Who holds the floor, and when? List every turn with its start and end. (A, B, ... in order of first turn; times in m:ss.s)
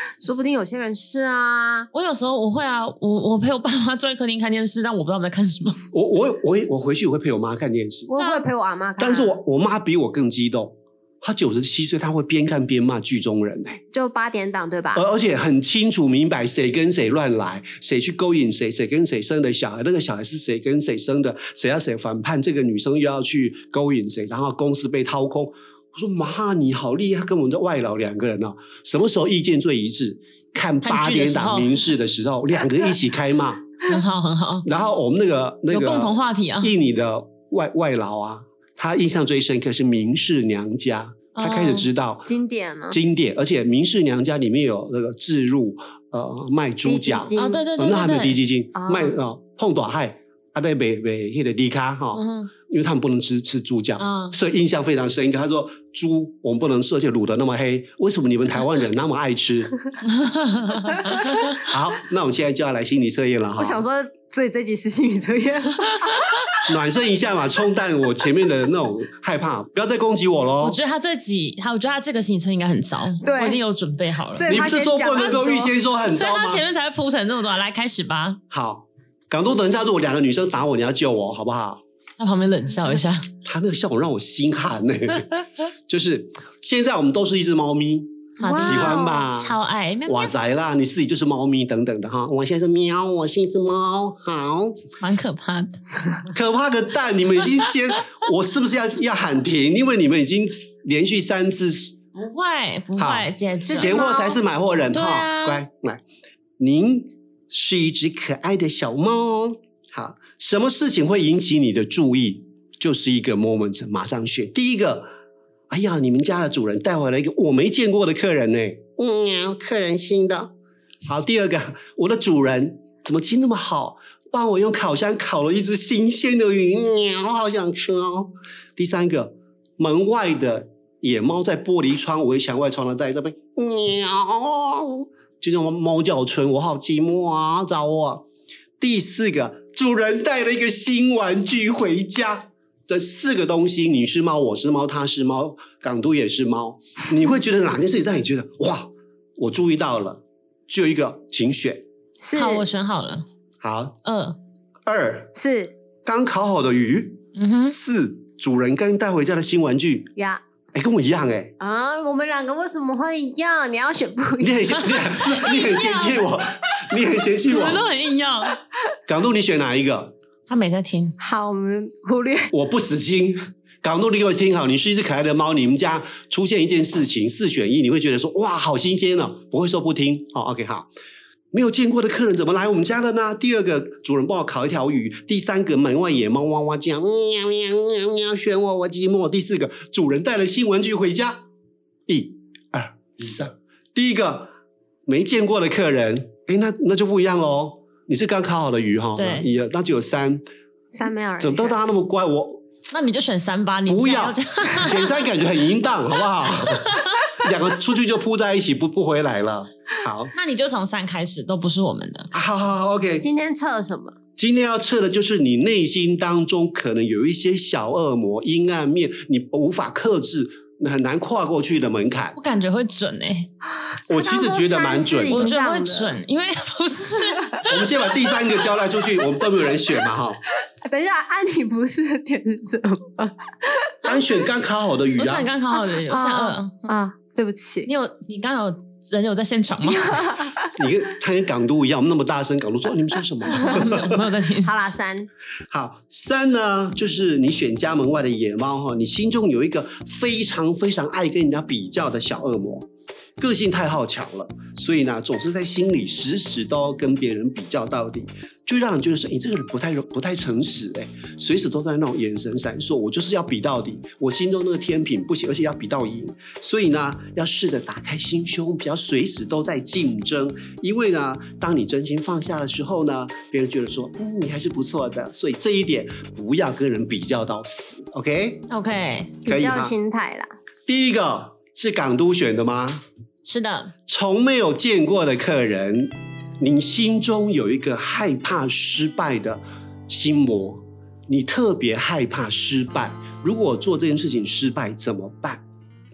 0:00.2-0:01.9 A
0:01.9-0:05.8 B
0:05.9-0:08.1 C
0:08.1-0:09.4 A
0:08.2-0:08.4 B
0:09.0-0:13.8 C
0:13.9-0:15.0 A
0:14.9-0:33.6 C
0:30.8-0:31.8 B
0:33.8-0:34.7 B
0:34.7-0:42.3 C
0:35.7-0:36.7 B
0:41.4-0:41.9 B
0:42.3-0:43.0 A
0:42.9-0:59.8 C
0:46.8-0:47.7 A
0:47.4-0:48.4 B
0:48.8-0:49.1 A
0:52.1-0:52.5 B
0:54.0-0:54.4 B
1:00.2-1:01.5 B
1:01.6-1:03.8 C
1:03.6-1:06.4 A
1:06.7-1:10.8 C
1:10.6-1:14.6 B
1:13.2-1:13.6 A
1:14.3-1:15.7 A
1:14.5-1:16.6 C
1:15.2-1:15.4 B
1:16.1-1:18.4 B
1:18.5-1:21.8 C
1:22.2-1:23.3 B
1:23.4-1:25.3 C
1:25.9-1:29.6 C
1:28.4-1:30.3 B
1:28.4-1:29.2 A
1:30.1-1:34.8 C
1:35.0-1:36.0 B
1:36.3-1:42.0 C
1:42.1-1:44.1 B
1:43.0-1:46.0 C
1:43.7-1:44.4 A
1:44.9-1:45.6 B
1:46.6-1:55.1 C
1:55.7-2:00.5 C
2:01.1-2:18.2 C
2:18.8-2:31.8 C
2:32.2-2:32.7 A
2:32.3-2:33.3 B
2:33.6-2:34.0 C
2:34.0-2:34.4 B
2:34.9-2:35.3 C
2:35.4-2:35.8 A
2:36.0-2:37.2 C
2:37.4-2:37.8 B
2:37.7-2:40.1 C
2:40.7-2:41.5 C
2:41.6-2:46.2 A
2:44.4-2:47.8 C
2:47.5-2:48.6 B
2:49.1-2:50.1 C
2:50.5-2:51.2 B
2:51.2-2:52.5 A
2:52.5-3:00.9 C
3:01.5-3:11.4 C
3:12.1-3:14.5 C
3:15.1-3:20.4 C
3:19.2-3:19.5 B
3:20.9-3:21.8 A
3:21.4-3:22.6 C
3:22.9-3:25.2 B
3:23.9-3:30.3 C
3:26.7-3:27.1 B
3:30.3-3:32.4 B
3:32.3-3:33.3 C
3:33.2-3:34.2 A
3:34.4-3:42.4 C
3:42.4-3:43.5 B
3:44.1-3:45.5 C
3:44.1-3:46.2 A
3:45.3-3:47.7 B
3:47.7-3:50.4 C
3:50.8-3:54.0 A
3:54.0-3:55.5 C
3:55.2-3:56.9 B
3:55.7-3:57.9 A
3:57.8-4:00.3 B
4:00.1-4:00.5 A
4:00.8-4:04.2 C
4:03.5-4:04.7 B
4:04.6-4:05.3 A
4:05.7-4:12.9 C
4:13.4-4:38.7 C
4:38.7-4:39.3 B
4:39.4-4:40.5 A
4:39.5-4:39.9 C
4:40.9-4:43.0 C
4:43.4-4:43.9 B
4:44.1-4:55.6 C